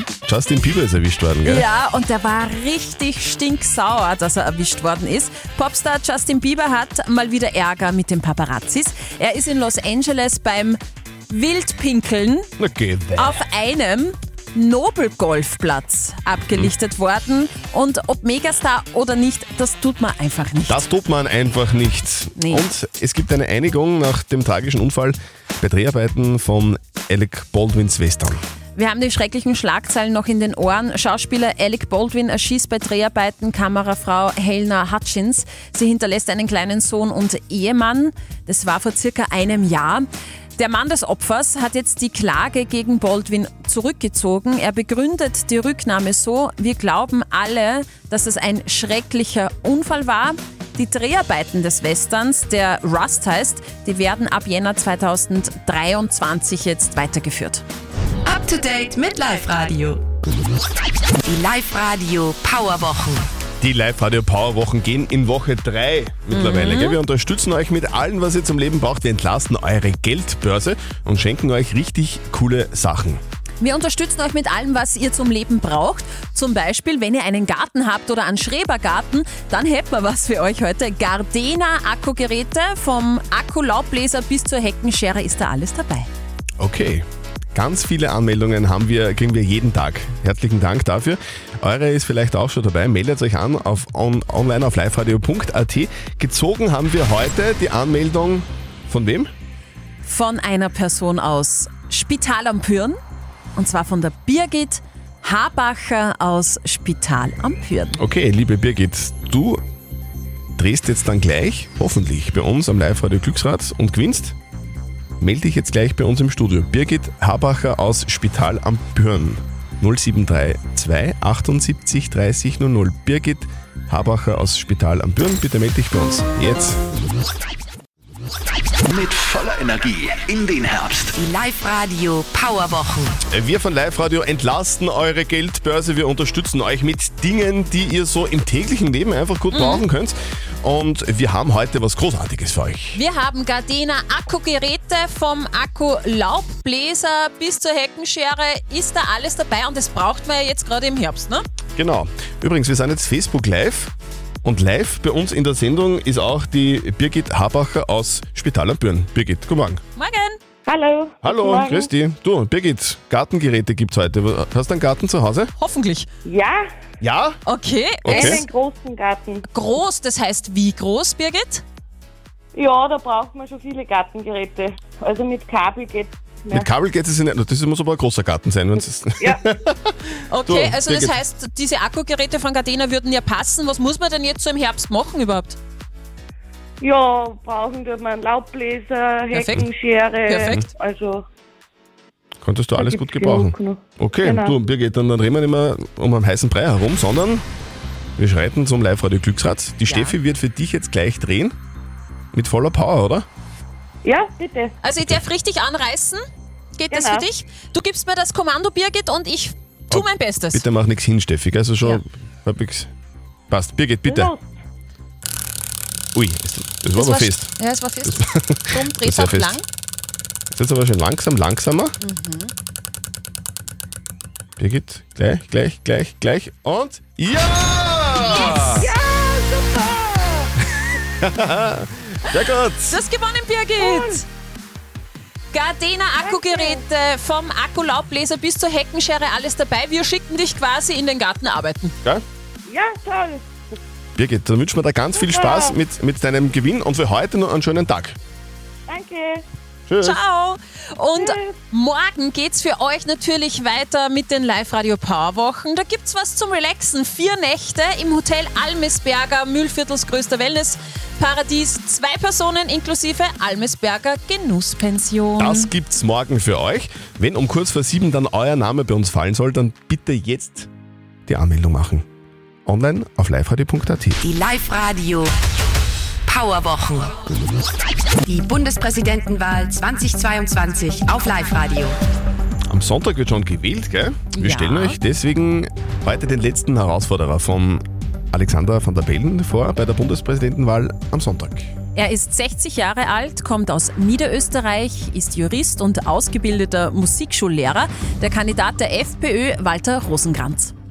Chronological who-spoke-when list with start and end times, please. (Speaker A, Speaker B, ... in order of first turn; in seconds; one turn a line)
Speaker A: 0.2-1.7
Speaker B: 1.4-12.5
Speaker A: 12.6-13.4
Speaker B: 13.2-20.8
Speaker A: 20.7-28.4
Speaker B: 22.4-22.6
Speaker B: 28.8-57.6
Speaker C: 58.2-60.0
Speaker C: 61.3-63.2
Speaker A: 63.6-73.2
Speaker B: 66.3-67.0
Speaker B: 73.6-86.1
Speaker A: 86.6-99.3
Speaker B: 100.0-103.0
Speaker B: 103.6-108.0
Speaker A: 108.0-109.6
Speaker A: 110.6-114.3
Speaker A: 115.2-126.8
Speaker D: 128.9-131.2
Speaker C: 131.2-133.2
Speaker A: 133.3-143.0
Speaker B: 139.5-139.8
Speaker B: 142.9-151.4
Speaker A: 151.8-153.9
Speaker A: 154.4-159.8
Speaker B: 160.0-160.4
Speaker E: 160.7-161.9
Speaker A: 161.2-165.5
Speaker B: 165.6-166.1
Speaker E: 166.2-166.6
Speaker A: 167.0-167.4
Speaker B: 167.4-168.5
Speaker A: 168.0-168.4
Speaker E: 168.1-169.4
Speaker B: 169.5-171.6
Speaker E: 172.5-176.7
Speaker A: 176.5-181.2
Speaker B: 180.3-185.6
Speaker E: 186.8-191.2
Speaker B: 189.3-189.7
Speaker B: 190.2-190.6
Speaker A: 192.4-197.4
Speaker E: 192.8-194.6
Speaker A: 198.2-201.5
Speaker B: 199.9-200.2
Speaker A: 202.3-203.2
Speaker E: 204.0-204.7
Speaker B: 204.8-206.2
Speaker A: 205.0-205.2
Speaker B: 206.8-210.6
Speaker E: 206.9-207.3
Speaker A: 209.9-212.9
Speaker A: 213.5-214.3
Speaker E: 214.1-214.5
Speaker A: 216.1-217.5
Speaker B: 217.0-219.6
Speaker A: 218.0-219.6
Speaker A: 220.5-222.0
Speaker B: 222.0-222.5
Speaker A: 224.6-228.9
Speaker B: 228.2-228.9
Speaker E: 228.4-230.5
Speaker A: 231.2-233.0
Speaker B: 232.9-234.2
Speaker E: 233.8-234.2
Speaker B: 235.5-241.9
Speaker E: 236.2-236.8
Speaker E: 242.7-243.4
Speaker A: 244.2-248.2
Speaker E: 245.1-245.8
Speaker E: 248.9-249.4
Speaker A: 249.9-250.2
Speaker B: 250.0-265.7
Speaker E: 251.2-251.5
Speaker A: 265.4-270.7
Speaker A: 271.3-272.0
Speaker A: 272.6-274.2
Speaker C: 274.2-275.3
Speaker C: 276.3-277.1
Speaker C: 278.2-282.0
Speaker A: 282.7-291.7
Speaker B: 284.3-285.0
Speaker B: 291.9-300.7